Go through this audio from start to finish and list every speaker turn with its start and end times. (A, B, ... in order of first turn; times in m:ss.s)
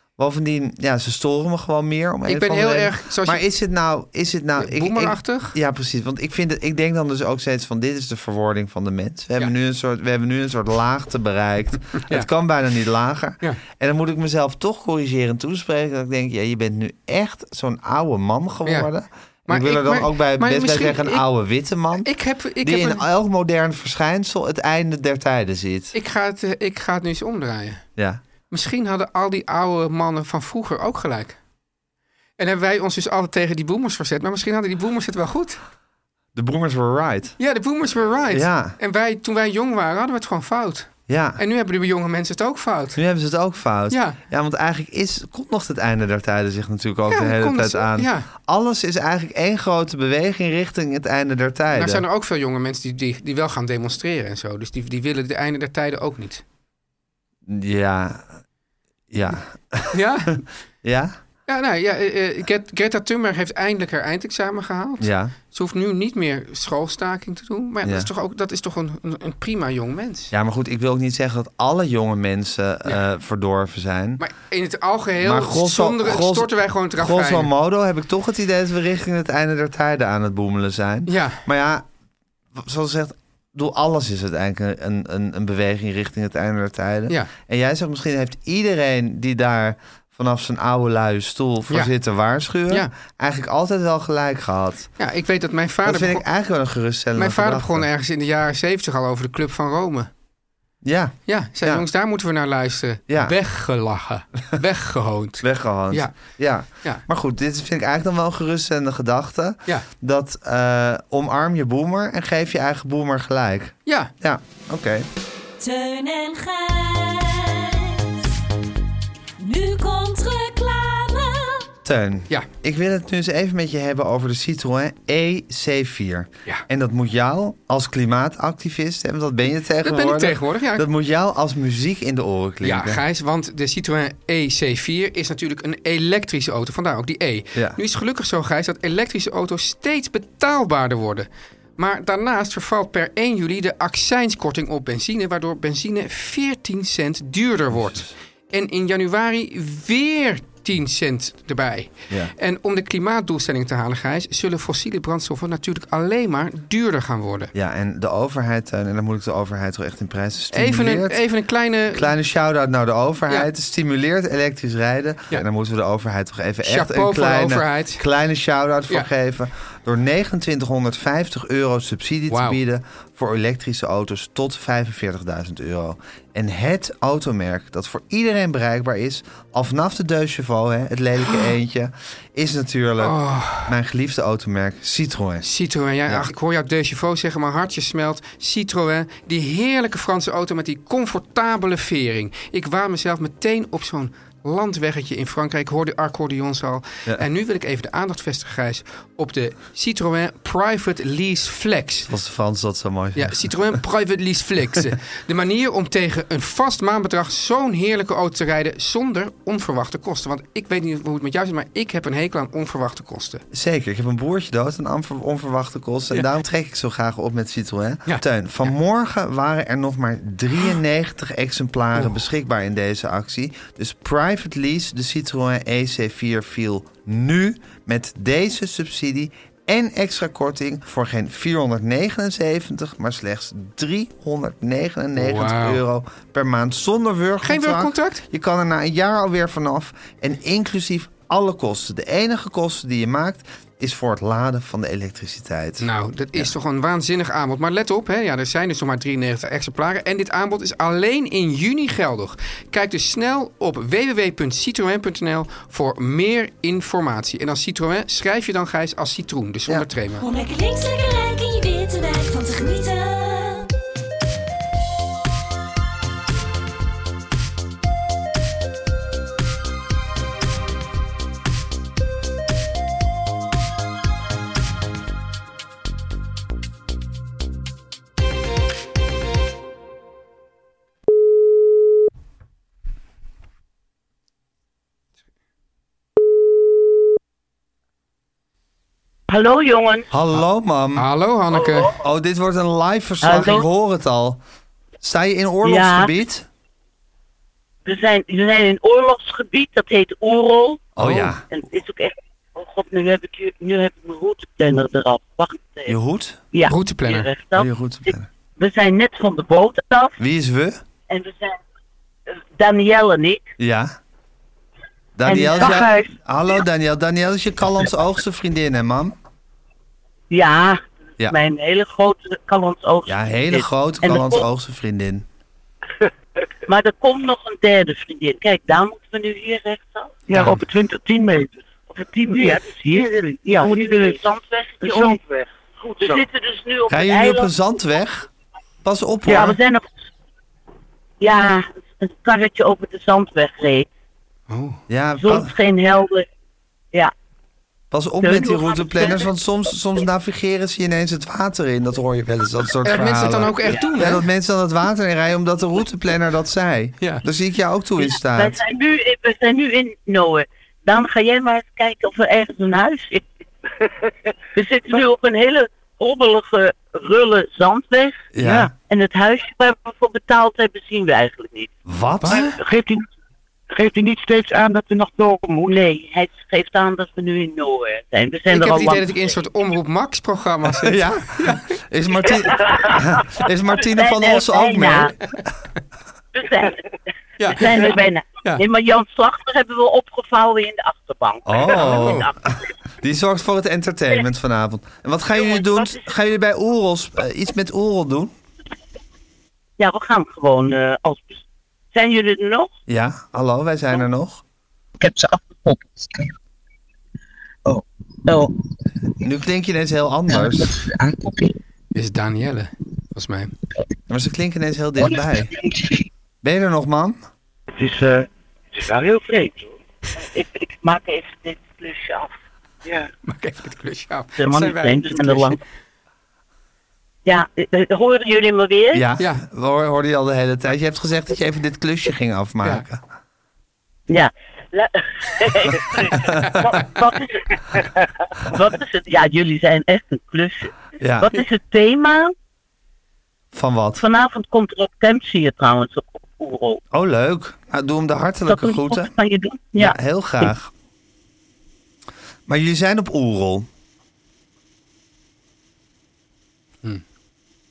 0:00.2-0:22.1 A
0:02.3-0:03.4 B
0:04.6-0:05.6 B
0:19.5-0:21.2 B
0:22.0-0:23.0 B
0:22.6-0:25.9 A
0:25.9-0:27.8 B
0:28.5-0:31.4 B
0:32.4-0:35.6 B
0:36.4-0:37.4 A
0:37.4-0:43.0 B
0:38.3-0:38.8 A
0:41.1-0:41.4 A
0:43.0-0:52.0 A
0:43.9-0:44.2 B
0:47.1-0:48.3 B
0:51.7-0:56.4 B
0:57.5-0:58.3 A
0:59.1-1:00.0 A
0:59.9-1:00.4 B
1:00.8-1:01.2 A
1:01.5-1:10.3 B
1:05.0-1:05.4 A
1:07.8-1:08.1 A
1:10.3-1:14.2 A
1:14.2-1:17.5 B
1:15.2-1:21.9 A
1:21.1-1:21.4 B
1:22.6-1:34.9 A
1:35.0-1:36.2 B
1:35.8-1:37.9 A
1:37.2-1:40.1 B
1:40.8-1:41.8 A
1:41.3-1:46.2 B
1:45.4-1:55.1 A
1:55.6-1:58.3 C
1:59.4-2:01.7 C
2:01.8-2:13.0 A
2:09.8-2:10.9 B
2:12.6-2:37.5 B
2:27.7-2:28.1 A
2:37.6-2:41.2 A
2:40.5-2:42.1 B
2:41.9-3:05.5 A
2:46.6-2:48.0 B
2:52.3-2:52.6 B
3:03.0-3:03.7 B
3:05.4-3:22.1 B
3:22.1-3:23.5 A
3:23.2-3:33.4 B
3:33.5-4:06.5 A
3:55.2-3:55.8 B
3:57.4-3:58.2 B
4:05.8-4:20.3 B
4:20.2-4:23.7 C
4:49.3-4:50.1 D
4:50.1-4:51.1 A
4:51.0-4:52.0 B
4:51.9-4:54.4 A
4:53.2-4:53.6 D
4:55.0-4:56.5 A
4:55.6-4:56.1 D
4:57.8-5:00.9 D
5:01.0-5:01.4 A
5:01.0-5:01.3 B
5:01.5-5:05.9 D
5:05.9-5:06.4 A
5:06.5-5:07.7 D
5:06.7-5:07.3 B
5:07.6-5:08.3 A
5:08.6-5:10.1 D
5:10.2-5:10.8 A
5:11.1-5:11.6 D
5:12.6-5:13.5 D
5:13.6-5:14.0 A
5:15.2-5:19.2 A
5:15.3-5:16.1 D
5:20.3-5:24.4 D
5:23.1-5:25.3 A
5:26.7-5:30.2 D
5:30.3-5:34.2 E
5:32.0-5:35.2 D
5:34.8-5:35.5 E
5:35.8-5:37.5 D
5:36.0-5:36.3 E
5:36.9-5:38.3 A
5:38.8-5:39.6 A
5:39.3-5:39.9 D
5:41.2-5:43.9 D
5:44.5-5:44.8 B
5:44.9-5:45.5 A
5:45.2-5:46.3 D
5:47.9-5:58.6 A
5:48.2-5:49.3 D
5:52.8-5:54.2 B
5:58.0-6:03.2 D
6:04.6-6:11.7 D
6:08.3-6:08.7 A
6:11.9-6:12.5 A
6:12.2-6:12.6 B
6:12.6-6:13.0 E
6:13.7-6:15.8 E
6:15.7-6:19.3 D
6:18.5-6:21.7 B
6:20.7-6:25.2 A
6:23.8-6:25.1 D
6:26.3-6:26.8 D
6:27.4-6:28.6 B
6:27.5-6:32.6 D
6:31.5-6:38.4 A
6:31.7-6:32.3 B
6:35.3-6:36.1 D
6:39.8-6:41.4 D
6:41.9-6:42.7 D
6:42.9-6:44.4 A
6:45.0-6:46.3 D
6:47.7-6:48.5 D
6:49.2-6:50.8 A
6:50.8-6:51.5 D
6:51.9-6:53.5 B
6:54.1-6:55.5 A
6:55.6-6:55.9 D
6:56.4-6:57.2 A
6:57.8-6:59.7 E
7:00.3-7:02.3 D
7:03.3-7:05.6 B
7:04.4-7:05.6 D
7:07.2-7:09.0 D
7:08.9-7:13.0 A
7:09.2-7:09.4 B
7:14.1-7:17.8 D
7:18.4-7:22.3 D
7:21.0-7:21.3 A
7:23.5-7:24.0 A
7:24.0-7:26.8 D
7:26.9-7:29.1 A
7:28.5-7:30.5 D
7:29.8-7:30.7 A
7:32.5-7:33.7 A